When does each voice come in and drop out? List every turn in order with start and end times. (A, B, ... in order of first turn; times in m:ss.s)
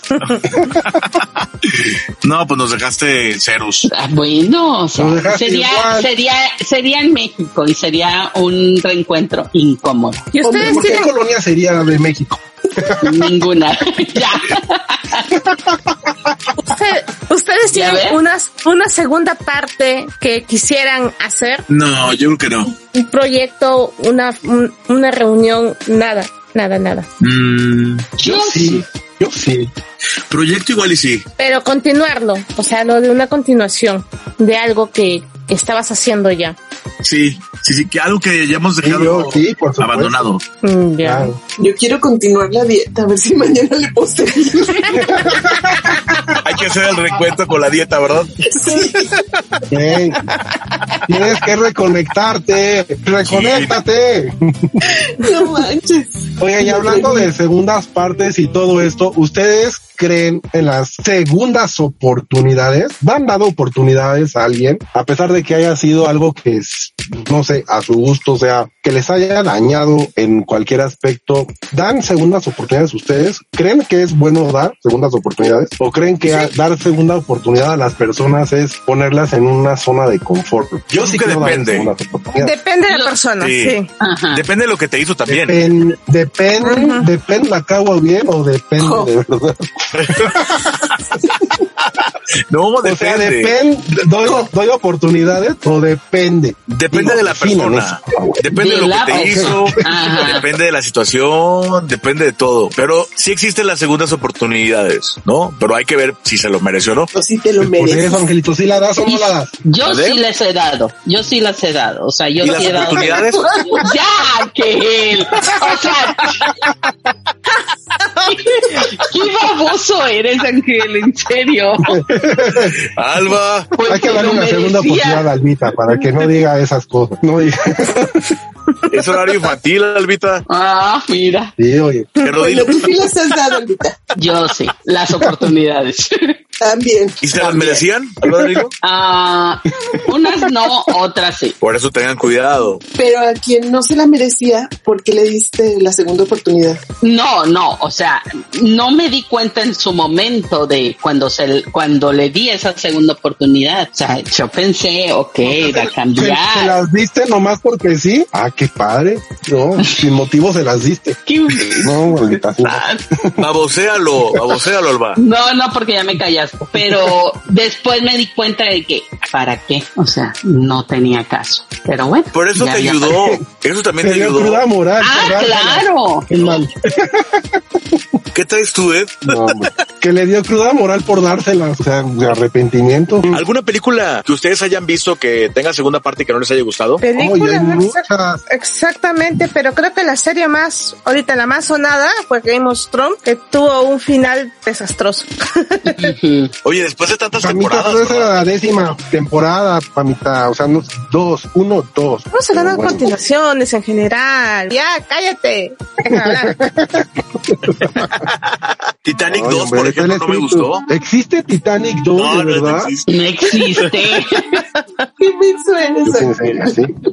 0:00.2-0:03.9 A
0:03.9-0:10.3 B
0:04.9-0:06.1 C
0:10.3-0:11.1 D
0:10.4-0:13.4 C
0:10.4-0:11.0 E
0:13.0-0:15.3 B
0:15.5-0:15.8 C
0:16.6-0:21.6 D
0:17.7-0:18.2 B
0:21.7-0:22.7 A
0:22.9-0:27.1 D
0:27.2-0:28.1 A
0:28.2-0:28.8 B
0:28.2-0:29.7 C
0:30.3-0:31.2 A
0:31.4-0:36.6 D
0:37.0-0:40.4 A
0:38.8-0:40.2 C
0:40.6-0:41.4 D
0:41.0-0:41.4 C
0:41.6-0:45.2 E
0:44.9-0:46.3 C
0:46.4-0:49.0 A
0:48.5-0:49.2 E
0:49.7-0:50.2 C
0:51.1-0:54.9 C
0:53.2-0:53.8 A
0:55.0-0:57.3 E
0:56.4-1:22.5 C
1:20.9-1:21.9 A
1:22.4-1:23.9 D
1:23.4-1:23.8 A
1:24.0-1:24.4 B
1:24.3-1:25.6 A
1:25.3-1:30.4 C
1:26.6-1:27.0 D
1:28.8-1:29.1 E
1:30.0-1:30.3 A
1:32.5-1:33.5 A
1:32.8-1:38.4 C
1:36.7-1:47.1 A
1:38.5-1:40.4 B
1:39.2-1:40.0 C
1:47.1-1:48.2 E
1:47.6-1:49.5 C
1:49.0-1:53.2 B
1:49.8-1:50.2 A
1:52.4-1:53.4 A
1:52.6-1:53.9 E
1:53.8-1:56.5 B
1:58.2-2:02.0 B
2:01.8-2:02.7 C
2:02.5-2:03.7 A
2:03.8-2:05.3 B
2:03.9-2:08.3 C
2:08.9-2:10.4 A
2:10.5-2:11.5 B
2:11.6-2:12.1 C
2:12.2-2:13.1 A
2:12.2-2:14.0 E
2:14.2-2:16.4 B
2:16.6-2:17.8 E
2:17.2-2:18.7 A
2:18.8-2:21.5 B
2:21.6-2:22.8 A
2:23.0-2:26.8 E
2:27.0-2:36.8 B
2:35.4-2:41.2 C
2:41.3-2:43.0 B
2:41.8-2:43.4 C
2:43.4-2:45.2 A
2:45.2-2:53.2 B
2:52.3-2:54.6 A
2:54.0-2:58.0 C
2:55.0-2:56.3 B
2:56.3-2:56.6 A
2:58.3-2:59.6 A
2:59.2-3:03.4 C
3:03.3-3:07.0 A
3:07.0-3:16.1 D
3:07.1-3:08.4 C
3:16.0-3:16.5 B
3:16.6-3:18.4 A
3:17.4-3:23.1 C
3:22.3-3:26.6 D
3:26.1-3:28.2 C
3:28.0-3:30.8 A
3:29.3-3:32.9 C
3:32.2-3:33.1 A
3:33.1-3:34.6 B
3:35.2-3:36.7 E
3:36.0-3:36.9 C